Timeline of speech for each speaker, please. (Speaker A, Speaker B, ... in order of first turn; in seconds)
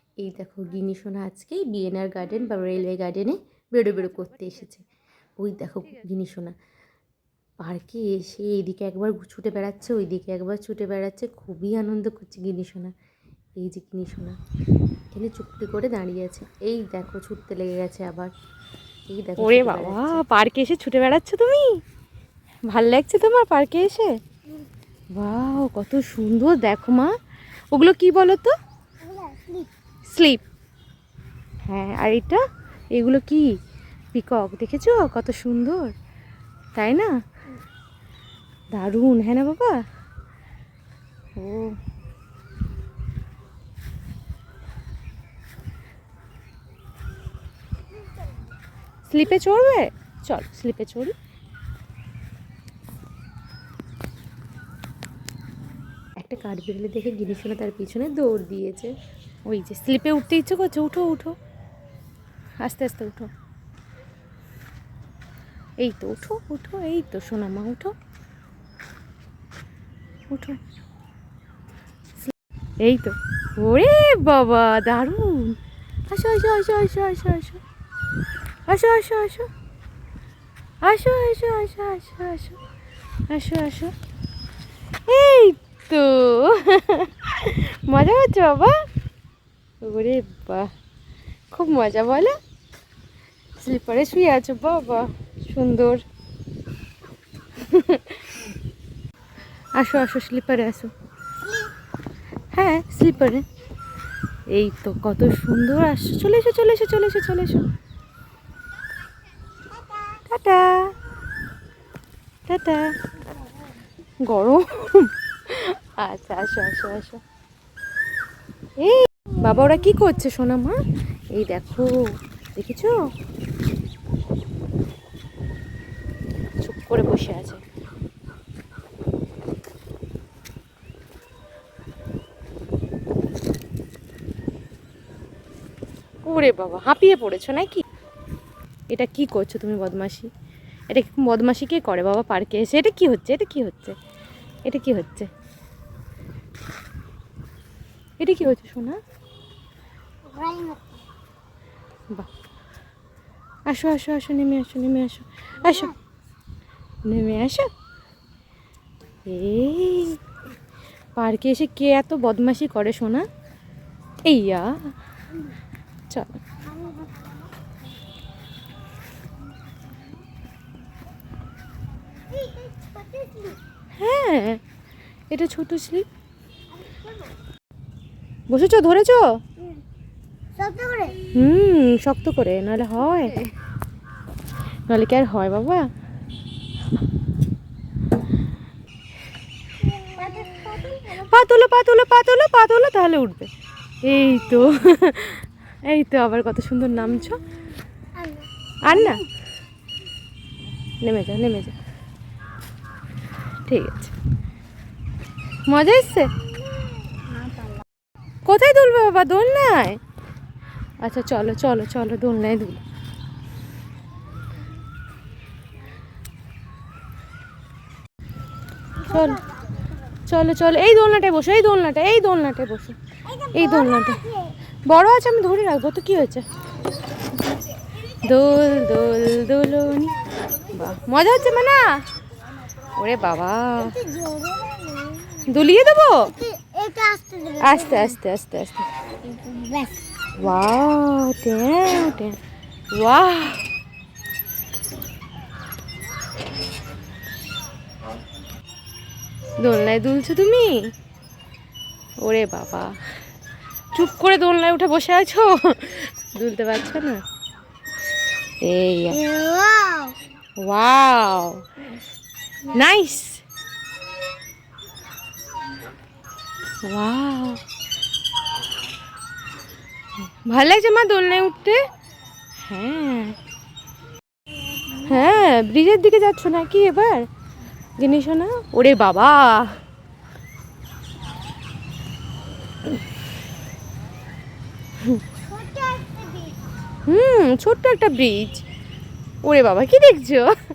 Speaker A: 0.2-4.8, 5.4-6.5, 7.6-12.9, 13.6-14.4, 15.1-18.3, 19.1-20.2, 56.2-58.9
Speaker B: 3.8-4.8, 5.6-6.1, 19.4-21.7, 22.7-24.1, 25.2-27.1, 27.7-28.5, 30.1-30.4, 31.7-32.4, 32.9-33.5, 34.1-35.9, 36.8-37.1, 38.7-39.8, 41.4-41.7, 49.1-51.1, 59.5-61.4, 62.6-63.3, 65.8-67.9, 70.3-70.6, 72.8-75.6, 76.1-77.6, 78.7-79.5, 80.8-82.6, 83.3-83.9, 85.1-88.8, 89.8-90.7, 91.5-92.3, 93.6-96.0, 97.6-98.4, 99.8-100.9, 102.5-103.4, 104.5-107.6, 110.3-110.9, 112.5-112.9, 114.3-117.2, 118.8-120.8, 121.3-122.0, 122.6-123.0, 126.6-127.6, 136.2-137.8, 138.9-140.3, 140.9-144.0, 144.7-145.3, 148.2-149.0, 153.7-155.9, 157.1-157.7, 159.3-160.2, 161.2-163.3, 164.3-164.7, 166.1-166.4, 174.0-174.6, 175.3-176.1, 178.5-179.3, 181.3-183.4, 184.9-185.9, 191.1-193.5, 194.0-197.4, 198.9-199.2, 201.0-201.7, 203.7-204.1, 205.7-206.3, 208.5-210.0, 211.0-212.8, 219.1-219.4, 220.3-223.0, 223.5-224.2, 224.9-226.4, 228.2-230.2, 230.7-232.0, 233.0-234.0, 235.5-236.3, 237.6-238.9, 240.4-242.4, 242.9-243.7, 249.6-250.9, 252.2-252.9, 253.9-257.2, 258.6-259.2, 260.6-261.6, 262.7-263.4, 266.8-267.6, 270.3-271.8, 272.6-273.4, 275.0-277.3, 278.0-279.8, 287.1-288.6, 289.4-290.5
Speaker C: 29.0-29.7, 101.4-101.7, 109.7-110.2, 150.3-151.0, 155.6-156.0, 166.6-167.5, 169.9-170.2, 172.3-173.6, 176.8-177.3, 180.6-181.2, 189.8-191.4, 198.2-199.3, 206.3-207.8, 219.0-219.8, 223.2-224.5, 233.8-235.4, 236.2-238.2, 239.2-240.3, 259.1-260.2, 285.4-286.8